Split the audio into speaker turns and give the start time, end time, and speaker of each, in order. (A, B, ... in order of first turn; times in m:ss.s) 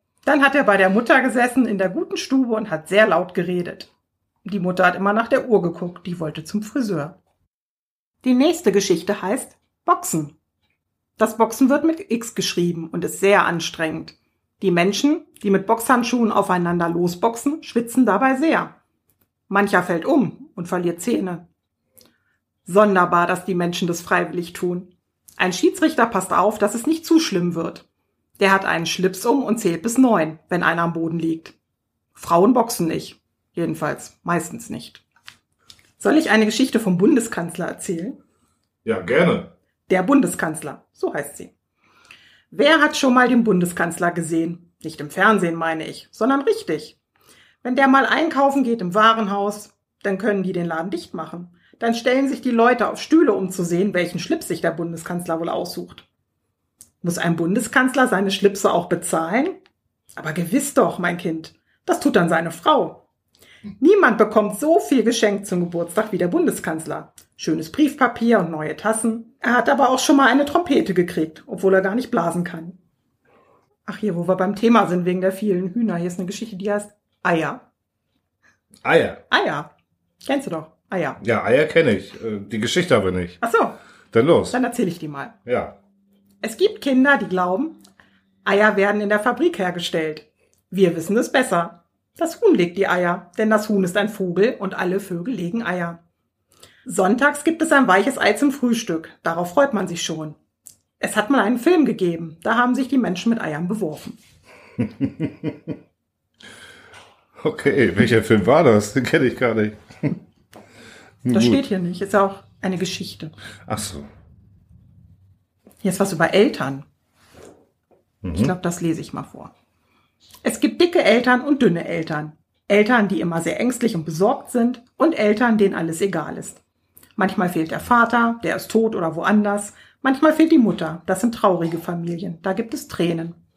0:00.2-0:03.9 A
0:04.4-0:07.2 A
0:08.2-0:10.3 A
0:11.2-0:18.8 A
0:19.5-0:21.4 A
0:22.6-0:27.8 A
0:28.4-0:31.6 A
0:32.1-0:35.0 A
0:36.0-0:38.2 A
0:38.8-0:39.5 B
0:39.9-0:41.5 A
0:42.5-0:47.0 A
0:47.6-0:56.0 A
0:57.0-0:59.6 A
1:00.1-1:03.0 A
1:03.8-1:12.8 A
1:13.8-1:17.6 A
1:18.8-1:19.2 B
1:19.3-1:19.7 A
1:20.2-1:21.2 A
1:21.2-1:23.4 B
1:23.4-1:23.8 A
1:24.1-1:24.6 B
1:24.5-1:25.3 A
1:25.4-1:25.8 B
1:26.4-1:27.8 A
1:28.4-1:36.0 A
1:36.8-1:40.4 A
1:41.0-1:44.2 A
1:45.0-1:45.5 B
1:47.4-1:50.2 B
1:51.2-1:51.6 B
1:51.3-1:53.3 A
1:53.7-1:54.1 B
1:55.8-1:56.9 A
1:58.2-1:58.5 B
1:58.3-1:59.5 A
2:00.4-2:06.6 A
2:07.2-2:13.4 A